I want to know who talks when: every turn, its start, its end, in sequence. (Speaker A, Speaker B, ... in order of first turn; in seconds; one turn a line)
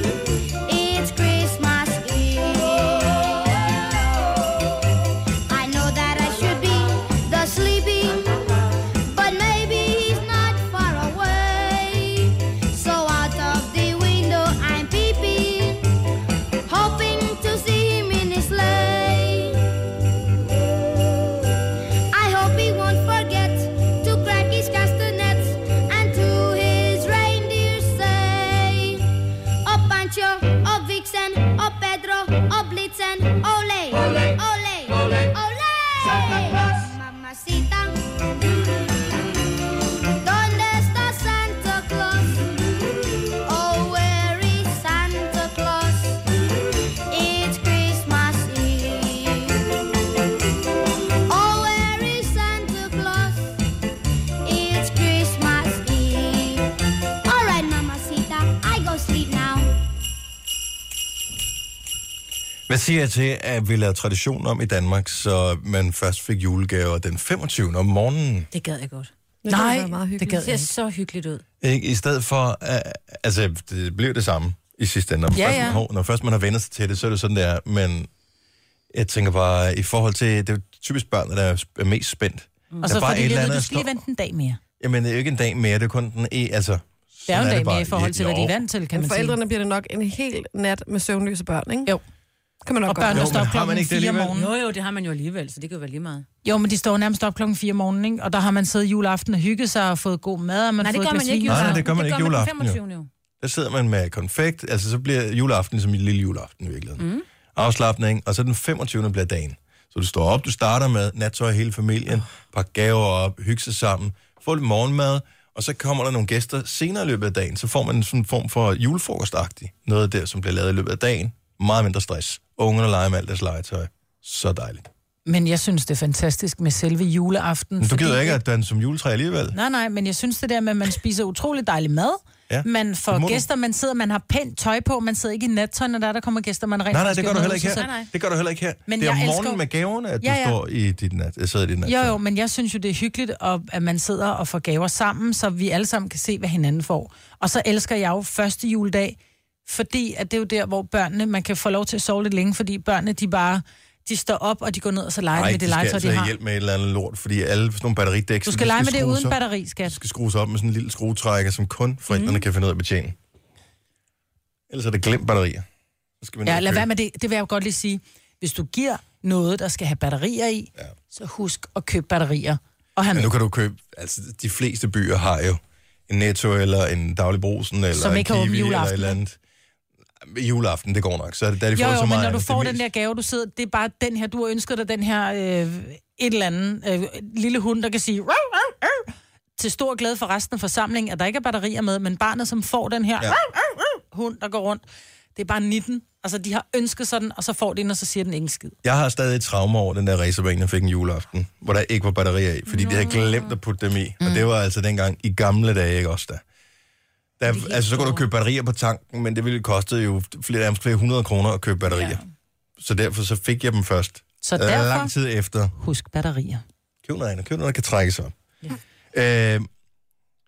Speaker A: 0.6-4.4
Speaker A: 5.5-8.5
Speaker A: 9.0-15.9
Speaker A: 16.6-19.8
Speaker A: 22.1-38.2
Speaker A: 40.0-42.6
Speaker A: 43.2-46.2
Speaker A: 47.1-49.8
Speaker A: 51.2-53.6
Speaker A: 54.4-59.8
Speaker B: 62.7-68.5
Speaker C: 68.5-69.1
Speaker D: 69.4-70.6
Speaker E: 69.5-70.5
Speaker C: 70.3-71.4
Speaker B: 71.6-78.1
Speaker E: 75.3-75.8
Speaker B: 78.9-84.0
Speaker E: 82.8-84.6
Speaker B: 84.8-88.6
Speaker E: 87.3-89.4
Speaker D: 88.9-91.9
Speaker D: 92.6-93.4
Speaker E: 92.9-94.5
Speaker B: 93.1-94.3
Speaker C: 94.3-96.2
Speaker E: 96.4-101.9
Speaker C: 100.8-103.1
Speaker B: 101.5-102.8
Speaker B: 103.4-107.0
Speaker C: 107.0-107.2
Speaker B: 107.5-124.9
Speaker E: 125.2-128.4
Speaker B: 127.8-129.6
Speaker E: 129.5-138.0
Speaker B: 132.5-133.5
Speaker B: 136.9-142.2
Speaker C: 137.8-138.1
Speaker E: 138.9-139.6
Speaker E: 140.2-140.6
Speaker E: 141.8-156.3
Speaker B: 155.3-163.2
Speaker E: 158.4-160.0
Speaker C: 162.1-162.4
Speaker B: 164.7-165.7
Speaker B: 166.2-166.9
Speaker E: 166.4-173.3
Speaker B: 173.1-179.3
Speaker E: 177.9-179.2
Speaker B: 180.2-182.8
Speaker E: 181.7-194.8
Speaker E: 195.3-198.8
Speaker B: 198.8-206.4
Speaker C: 202.7-203.6
Speaker E: 204.2-204.5
Speaker B: 207.4-212.2
Speaker C: 207.5-208.2
Speaker B: 212.8-215.7
Speaker E: 214.4-215.1
Speaker E: 215.7-216.6
Speaker B: 217.0-218.3
Speaker B: 219.1-219.7